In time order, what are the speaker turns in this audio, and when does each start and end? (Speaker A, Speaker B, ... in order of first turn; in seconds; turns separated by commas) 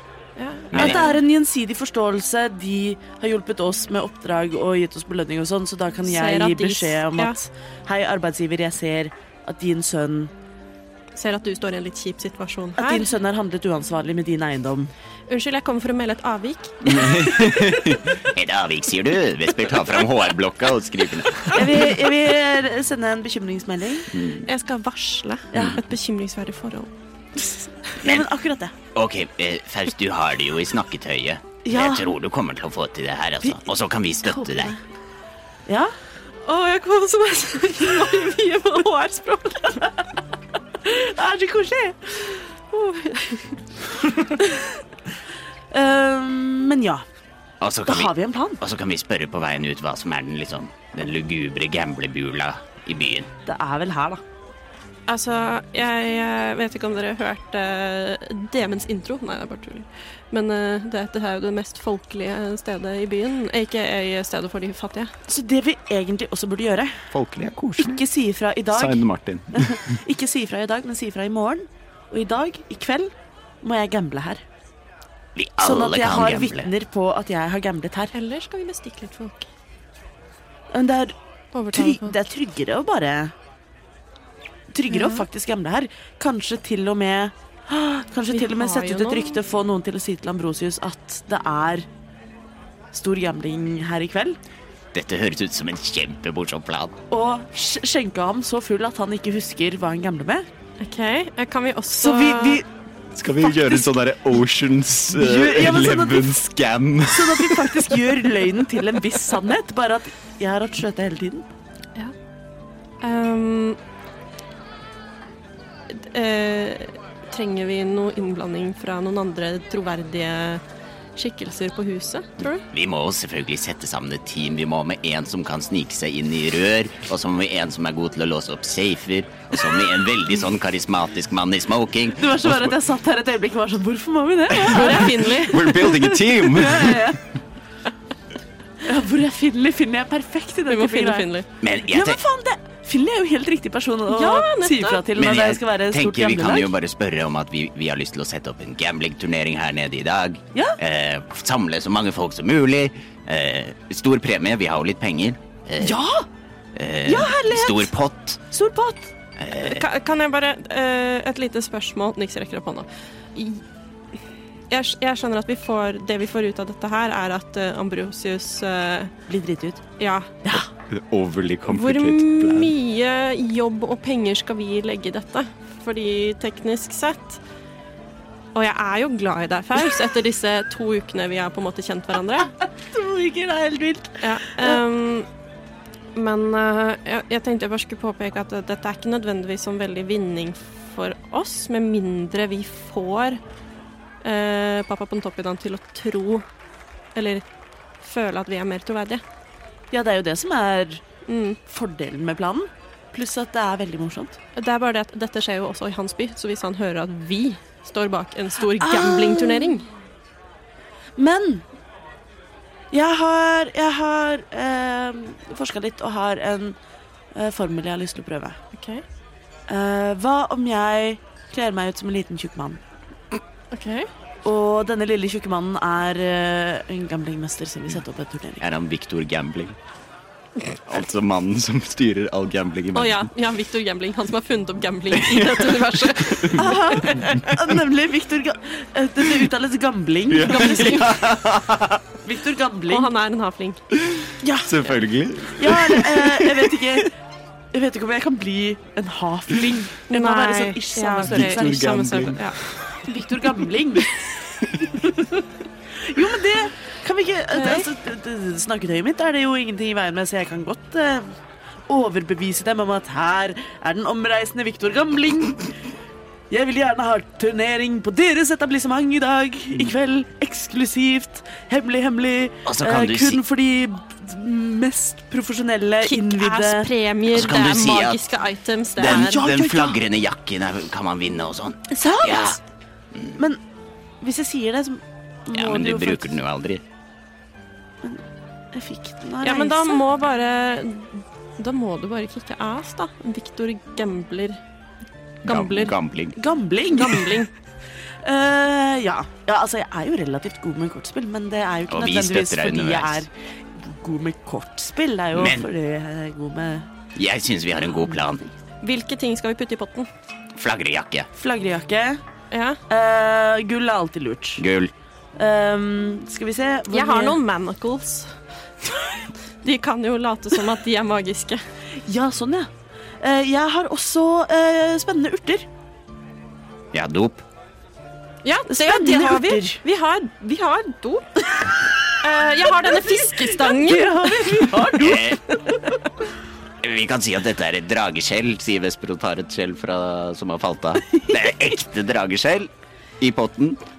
Speaker A: 0.4-1.2, Speaker B: 0.7-1.1, Speaker C: 0.7-10.3, Speaker A: 6.0-7.4, Speaker A: 11.2-13.1, Speaker C: 12.8-14.9, Speaker A: 15.3-17.1, Speaker B: 16.9-21.8, Speaker C: 21.5-24.1, Speaker B: 24.1-24.4, Speaker A: 24.4-26.9, Speaker C: 25.5-25.8, Speaker C: 28.0-28.7, Speaker B: 28.9-34.8, Speaker C: 31.7-32.1, Speaker C: 34.3-34.8, Speaker C: 35.7-35.9, Speaker A: 36.5-39.9, Speaker C: 40.8-42.3, Speaker A: 42.7-43.6, Speaker A: 44.3-44.7, Speaker C: 45.7-47.0, Speaker B: 47.6-53.3, Speaker C: 47.9-48.6, Speaker C: 53.5-54.2, Speaker A: 55.1-65.1, Speaker C: 65.3-67.0, Speaker D: 67.2-67.8, Speaker C: 67.8-74.4, Speaker D: 68.8-69.7, Speaker B: 75.4-76.7, Speaker C: 75.6-78.1, Speaker A: 78.1-79.5, Speaker C: 80.7-81.2, Speaker A: 81.5-82.2, Speaker C: 81.7-83.3, Speaker C: 84.7-91.9, Speaker A: 84.9-85.3, Speaker A: 88.3-89.4, Speaker C: 92.9-94.4, Speaker B: 94.9-97.0, Speaker C: 97.1-100.5, Speaker A: 100.8-102.6, Speaker C: 102.0-102.7, Speaker D: 103.1-107.6, Speaker C: 103.5-103.8, Speaker C: 105.1-106.4, Speaker C: 107.1-111.5, Speaker A: 113.0-113.8, Speaker A: 115.9-120.6, Speaker A: 121.2-122.6, Speaker B: 122.7-132.7, Speaker C: 132.2-137.2, Speaker A: 134.6-136.0, Speaker D: 135.5-137.1, Speaker C: 138.8-141.3, Speaker A: 140.7-141.5, Speaker B: 141.6-142.2, Speaker C: 141.9-146.7, Speaker A: 144.1-145.0, Speaker B: 145.2-156.0, Speaker C: 155.8-156.3, Speaker B: 156.8-158.4, Speaker C: 157.1-157.9, Speaker C: 158.5-159.1, Speaker B: 159.4-159.8, Speaker A: 159.6-163.6, Speaker A: 164.7-169.1, Speaker C: 169.3-169.8, Speaker A: 170.0-170.3, Speaker D: 170.9-172.7, Speaker A: 171.7-177.4, Speaker A: 178.6-182.5, Speaker C: 182.8-184.8, Speaker A: 184.2-185.3, Speaker A: 186.2-193.4, Speaker A: 194.2-196.4, Speaker A: 197.2-197.4, Speaker A: 198.0-199.2, Speaker C: 199.9-201.0, Speaker A: 201.3-201.6, Speaker C: 201.7-204.4, Speaker A: 204.6-209.9, Speaker C: 208.8-209.7, Speaker C: 211.2-211.6, Speaker C: 212.9-216.8, Speaker C: 217.3-218.6, Speaker A: 218.7-219.0, Speaker C: 219.7-222.8, Speaker A: 223.7-224.1, Speaker C: 224.4-228.6, Speaker B: 228.6-229.8, Speaker D: 230.9-233.3, Speaker A: 232.9-237.5, Speaker D: 235.2-235.7, Speaker C: 236.6-241.2, Speaker D: 240.3-242.0, Speaker A: 240.4-241.1, Speaker C: 242.2-243.1, Speaker A: 242.9-243.8, Speaker D: 244.2-246.6, Speaker C: 244.4-244.8, Speaker C: 245.5-247.1, Speaker C: 247.7-251.8, Speaker A: 250.1-252.6, Speaker D: 251.3-253.0, Speaker C: 253.0-254.2, Speaker C: 256.0-261.3, Speaker A: 257.5-257.9, Speaker C: 261.9-265.8, Speaker C: 266.5-276.9, Speaker B: 272.7-273.4, Speaker A: 276.0-279.4, Speaker B: 277.3-278.2, Speaker B: 279.0-282.6, Speaker C: 279.0-280.0, Speaker C: 281.9-282.6, Speaker B: 283.1-283.4, Speaker C: 283.4-283.6, Speaker C: 284.2-286.3, Speaker B: 285.5-286.8, Speaker C: 288.0-290.0, Speaker A: 289.4-294.6, Speaker A: 295.4-296.0, Speaker B: 295.4-296.4, Speaker C: 296.4-297.4, Speaker A: 296.9-297.5, Speaker C: 298.2-306.9, Speaker B: 301.9-303.2, Speaker B: 305.3-305.7, Speaker B: 307.1-308.5, Speaker A: 308.8-310.1, Speaker B: 310.6-311.3, Speaker C: 311.4-312.2, Speaker A: 312.5-312.8, Speaker C: 312.9-314.6, Speaker B: 314.6-314.9, Speaker C: 315.4-317.4, Speaker A: 316.9-318.3, Speaker A: 319.6-321.6, Speaker C: 322.0-322.7, Speaker C: 323.2-325.7, Speaker B: 326.9-327.4, Speaker A: 328.4-331.3, Speaker C: 328.7-329.8, Speaker A: 332.2-334.7, Speaker C: 332.9-335.4, Speaker B: 334.9-335.4, Speaker B: 336.8-342.7, Speaker B: 343.2-343.8